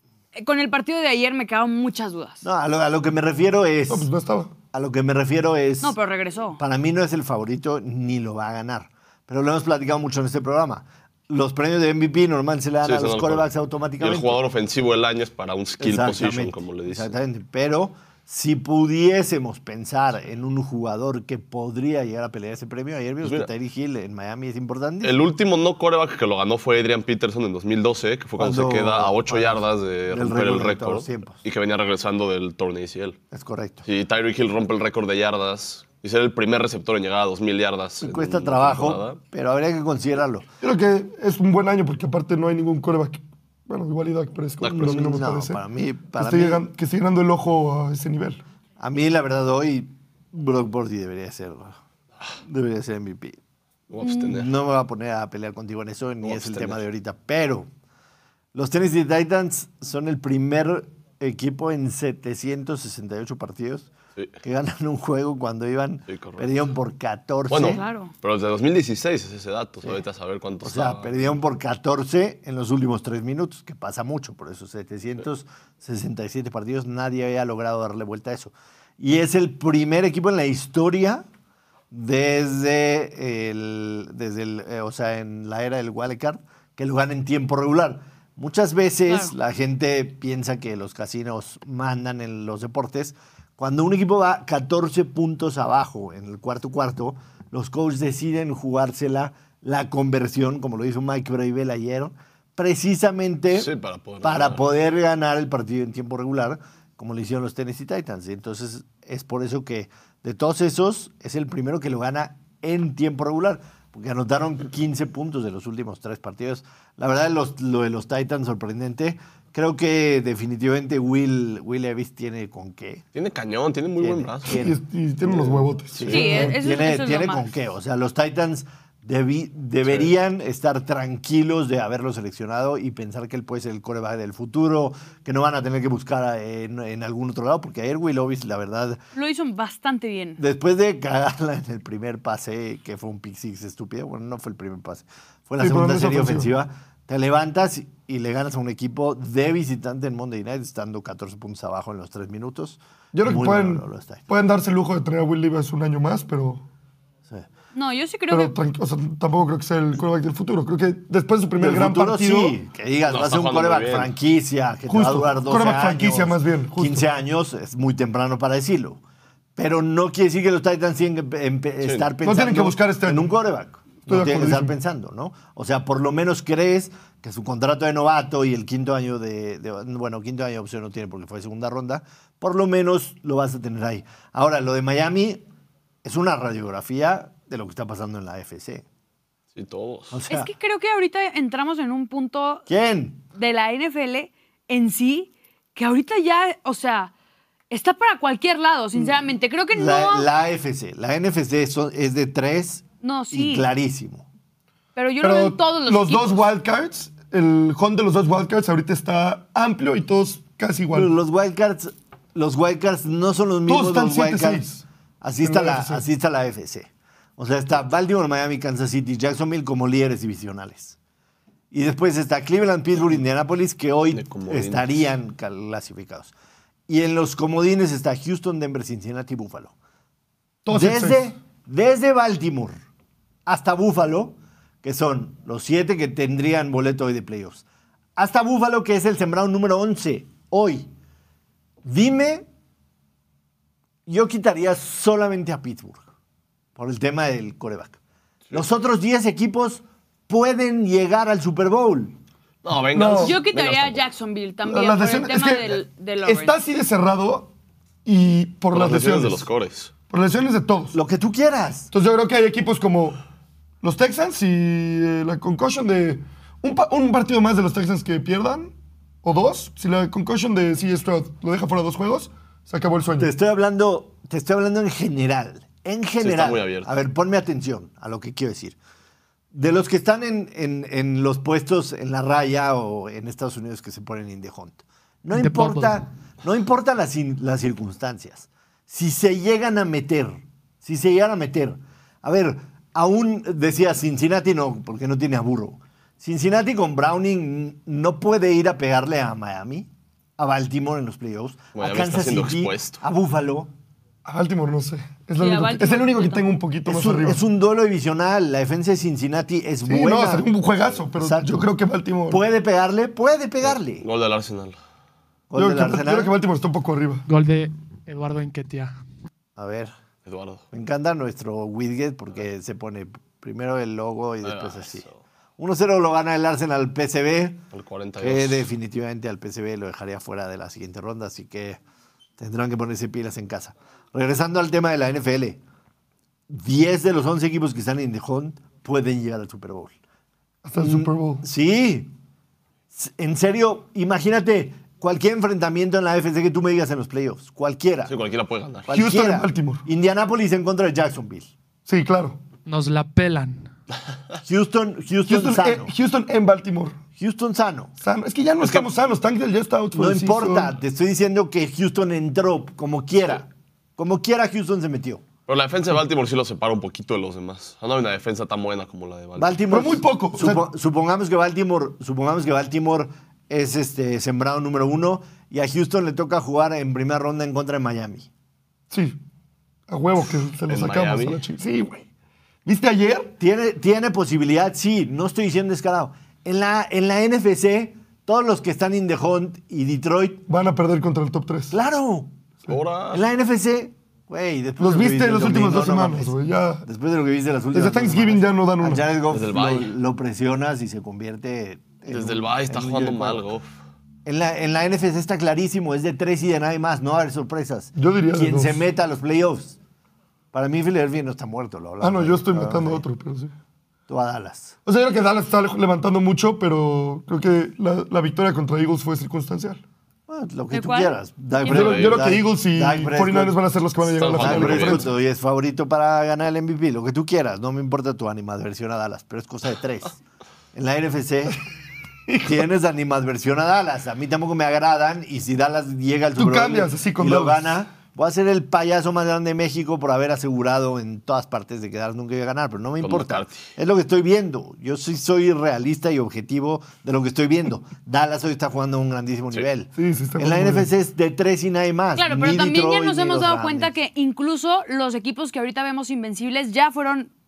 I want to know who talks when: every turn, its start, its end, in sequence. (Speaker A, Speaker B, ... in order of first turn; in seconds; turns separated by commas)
Speaker A: 0.3-2.5, Speaker B: 2.4-4.1, Speaker C: 3.9-4.5, Speaker B: 4.7-6.0, Speaker A: 5.8-6.6, Speaker B: 6.6-14.4, Speaker D: 12.8-13.5, Speaker D: 14.0-17.1, Speaker B: 15.8-25.2, Speaker D: 23.2-23.5, Speaker D: 25.0-33.2, Speaker B: 28.4-31.4, Speaker B: 33.3-33.9, Speaker D: 33.9-39.2, Speaker B: 38.0-40.5, Speaker C: 40.6-45.6, Speaker D: 44.6-45.2, Speaker B: 44.8-46.6, Speaker C: 46.2-48.4, Speaker B: 48.8-51.8, Speaker B: 52.4-53.4, Speaker D: 53.9-54.5, Speaker B: 54.0-57.7, Speaker D: 56.2-56.8, Speaker B: 58.5-63.9, Speaker B: 64.4-67.8, Speaker D: 66.1-66.5, Speaker D: 67.5-71.3, Speaker A: 67.6-68.1, Speaker B: 70.6-81.3, Speaker B: 81.9-103.7, Speaker A: 89.1-89.3, Speaker D: 103.5-104.6, Speaker B: 104.2-123.0, Speaker D: 123.2-124.6, Speaker B: 124.0-139.0, Speaker C: 124.5-126.6, Speaker D: 126.0-126.2, Speaker A: 126.1-127.5, Speaker A: 139.2-140.4, Speaker B: 140.4-154.3, Speaker C: 145.6-146.5, Speaker C: 153.1-156.7, Speaker A: 157.7-158.6, Speaker C: 158.3-162.6, Speaker B: 161.6-169.0, Speaker D: 163.1-164.1, Speaker C: 164.9-167.1, Speaker B: 169.6-185.4, Speaker D: 171.8-172.1, Speaker C: 172.2-173.3, Speaker C: 174.1-174.7, Speaker B: 186.0-188.8, Speaker D: 189.6-190.2, Speaker B: 190.1-190.5, Speaker A: 190.3-192.7, Speaker B: 192.7-193.2, Speaker A: 193.3-197.1, Speaker A: 197.7-200.3, Speaker B: 199.7-204.3, Speaker A: 203.0-203.7, Speaker A: 205.0-206.5, Speaker C: 205.2-211.1, Speaker B: 210.9-214.7, Speaker C: 213.7-214.8, Speaker B: 215.2-221.0, Speaker C: 215.4-216.0, Speaker B: 221.7-226.3, Speaker D: 224.1-225.1, Speaker B: 226.9-229.7, Speaker C: 230.7-231.3, Speaker B: 230.7-232.8, Speaker B: 233.5-237.6, Speaker B: 238.2-240.9, Speaker B: 241.8-242.5, Speaker B: 244.1-246.0, Speaker B: 246.8-248.0, Speaker B: 248.5-252.2, Speaker D: 252.6-254.0, Speaker C: 252.9-253.4, Speaker A: 253.2-256.6, Speaker C: 254.7-257.5, Speaker C: 258.1-259.5, Speaker D: 258.7-259.9, Speaker C: 260.1-261.0, Speaker B: 260.9-261.9, Speaker C: 261.9-263.2, Speaker C: 263.8-273.3, Speaker B: 273.2-278.8, Speaker D: 276.2-276.9, Speaker B: 279.5-303.7, Speaker E: 285.4-286.0, Speaker D: 301.8-303.0, Speaker C: 304.2-307.4, Speaker A: 305.4-306.5, Speaker B: 306.9-310.5, Speaker C: 309.9-312.4, Speaker B: 311.1-311.7, Speaker B: 312.3-314.1, Speaker D: 313.6-314.8, Speaker B: 315.5-316.3, Speaker C: 315.6-317.2, Speaker E: 317.3-318.9, Speaker B: 319.6-319.9, Speaker D: 320.2-320.6, Speaker B: 320.7-325.1, Speaker D: 324.4-325.2, Speaker B: 325.6-327.6, Speaker D: 327.7-328.7, Speaker B: 328.2-331.8, Speaker B: 332.4-335.6, Speaker B: 336.5-339.9, Speaker C: 340.6-341.4, Speaker B: 340.8-342.1, Speaker B: 342.9-348.1, Speaker D: 348.1-348.9, Speaker B: 348.9-351.5, Speaker C: 348.9-349.8, Speaker C: 351.9-352.4, Speaker E: 352.7-353.7, Speaker B: 354.4-355.9, Speaker C: 355.3-357.0, Speaker B: 357.2-357.9, Speaker C: 358.0-360.7, Speaker D: 358.6-358.9, Speaker B: 359.9-365.2, Speaker D: 365.5-369.6, Speaker B: 369.4-378.3, Speaker C: 369.7-370.7, Speaker C: 378.9-379.2, Speaker C: 379.9-382.1, Speaker D: 380.7-381.4, Speaker C: 382.6-383.3, Speaker B: 383.4-390.4, Speaker C: 390.5-391.8, Speaker B: 391.7-392.4, Speaker D: 392.7-393.2, Speaker B: 393.1-403.5, Speaker C: 394.8-396.9, Speaker C: 397.7-399.0, Speaker D: 399.3-399.9, Speaker D: 402.1-403.7, Speaker B: 404.2-409.8, Speaker C: 408.0-408.8, Speaker B: 410.5-413.0, Speaker C: 412.0-413.5, Speaker B: 414.1-414.8, Speaker C: 414.9-419.8, Speaker B: 420.3-423.6, Speaker A: 420.7-421.8, Speaker C: 421.6-425.1, Speaker D: 421.7-422.3, Speaker D: 424.0-425.1, Speaker B: 424.3-430.2, Speaker B: 430.7-431.6, Speaker C: 432.3-432.5, Speaker B: 432.4-453.9, Speaker C: 436.4-437.7, Speaker D: 443.0-443.6, Speaker C: 450.0-450.9, Speaker A: 452.2-457.3